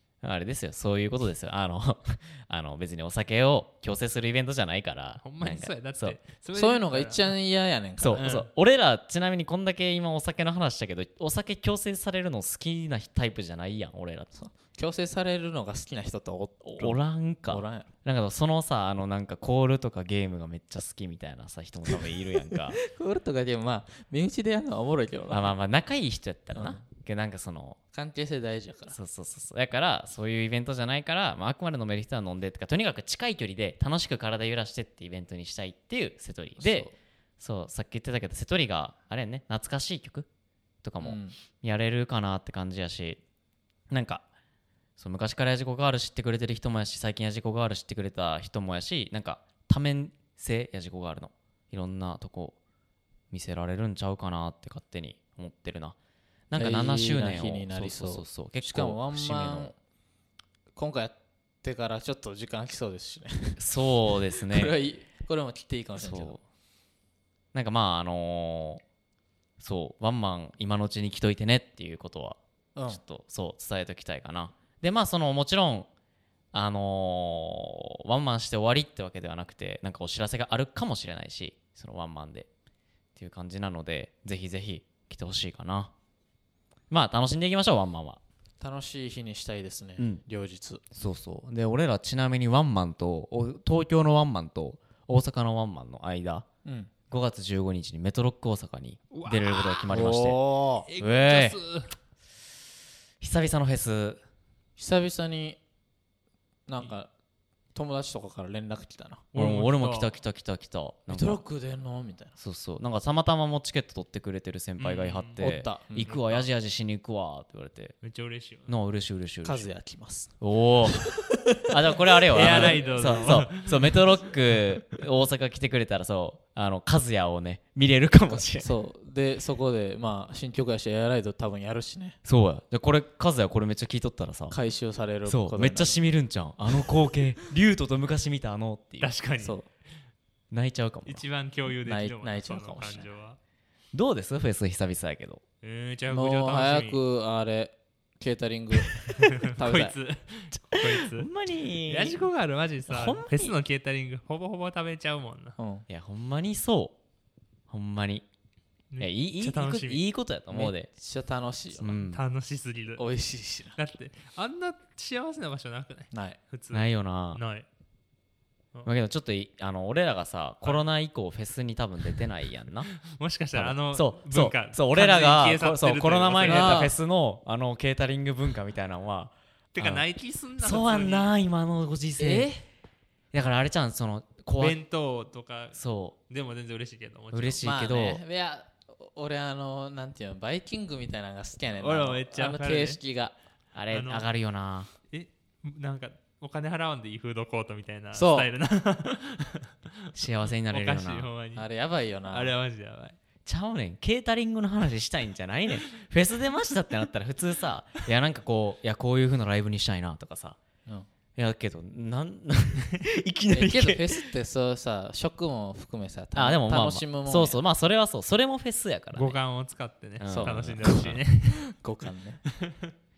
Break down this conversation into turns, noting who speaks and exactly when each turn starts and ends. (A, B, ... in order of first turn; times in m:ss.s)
0:00.2-0:06.2 A
0:05.2-0:07.3 B
0:06.5-0:08.3 C
0:08.0-0:14.3 A
0:08.2-0:08.5 B
0:14.3-0:17.9 C
0:16.6-0:22.8 A
0:22.5-0:25.5 C
0:25.3-0:27.8 A
0:26.5-0:26.8 C
0:27.9-0:29.0 C
0:28.9-0:40.3 A
0:36.6-0:36.9 C
0:40.8-0:43.2 A
0:41.0-0:41.4 C
0:43.9-0:44.2 A
0:45.0-0:52.6 A
0:53.3-0:56.0 A
0:56.5-0:59.7 A
0:56.6-0:59.8 C
1:00.8-1:06.4 C
1:03.6-1:04.7 A
1:06.0-1:06.4 A
1:07.5-1:08.8 A
1:09.6-1:15.9 A
1:12.8-1:13.0 C
1:16.5-1:22.5 A
1:23.2-1:25.9 A
1:26.9-1:28.2 A
1:28.6-1:30.8 C
1:30.9-1:36.4 A
1:36.6-1:36.9 C
1:37.1-1:40.4 A
1:39.1-1:39.9 B
1:39.9-1:40.9 C
1:40.9-1:41.9 B
1:41.0-1:41.6 A
1:43.2-1:44.2 A
1:44.8-1:45.6 C
1:46.7-1:47.1 C
1:47.8-1:49.3 C
1:49.3-1:50.1 B
1:49.4-1:51.4 A
1:51.1-1:52.3 C
1:52.4-1:58.0 A
1:54.8-1:55.4 B
1:55.4-1:56.1 C
1:56.0-1:56.5 B
1:58.0-1:58.7 B
1:58.7-1:59.7 A
1:59.4-2:00.3 C
2:00.4-2:01.1 A
2:00.9-2:01.7 C
2:01.6-2:08.7 A
2:02.2-2:03.3 C
2:02.3-2:04.1 B
2:08.3-2:12.2 C
2:12.2-2:14.6 A
2:14.5-2:16.0 C
2:15.3-2:19.1 A
2:19.0-2:19.6 B
2:19.4-2:19.7 C
2:20.5-2:21.2 A
2:21.1-2:23.4 B
2:21.8-2:23.1 C
2:23.9-2:25.4 A
2:25.6-2:27.0 B
2:26.1-2:29.9 C
2:29.1-2:31.3 B
2:30.7-2:32.3 A
2:31.9-2:35.6 B
2:32.9-2:33.6 A
2:35.6-2:35.8 C
2:35.9-2:37.0 A
2:37.7-2:38.2 A
2:38.9-2:40.0 B
2:39.0-2:40.9 A
2:40.5-2:42.0 C
2:41.8-2:42.2 A
2:42.1-2:43.0 B
2:43.0-2:43.8 C
2:43.8-2:47.6 B
2:46.1-2:46.4 C
2:46.7-2:47.4 A
2:48.8-2:52.9 A
2:53.0-2:56.9 B
2:53.5-3:00.0 A
2:56.4-2:56.9 C
2:59.7-3:01.3 B
3:00.6-3:02.5 A
3:02.2-3:02.6 C
3:03.3-3:04.8 A
3:04.6-3:07.6 B
3:05.8-3:06.1 A
3:07.3-3:08.2 A
3:07.6-3:13.4 C
3:11.7-3:13.0 B
3:13.7-3:14.9 A
3:13.9-3:14.3 B
3:15.1-3:20.1 B
3:18.1-3:18.5 C
3:20.1-3:21.3 A
3:20.6-3:21.7 B
3:21.6-3:22.5 C
3:22.3-3:23.2 B
3:23.4-3:30.6 A
3:31.4-3:34.2 A
3:33.5-3:37.6 C
3:36.4-3:39.4 A
3:39.1-3:41.7 B
3:40.2-3:41.2 A
3:40.2-3:41.1 C
3:41.7-3:42.4 C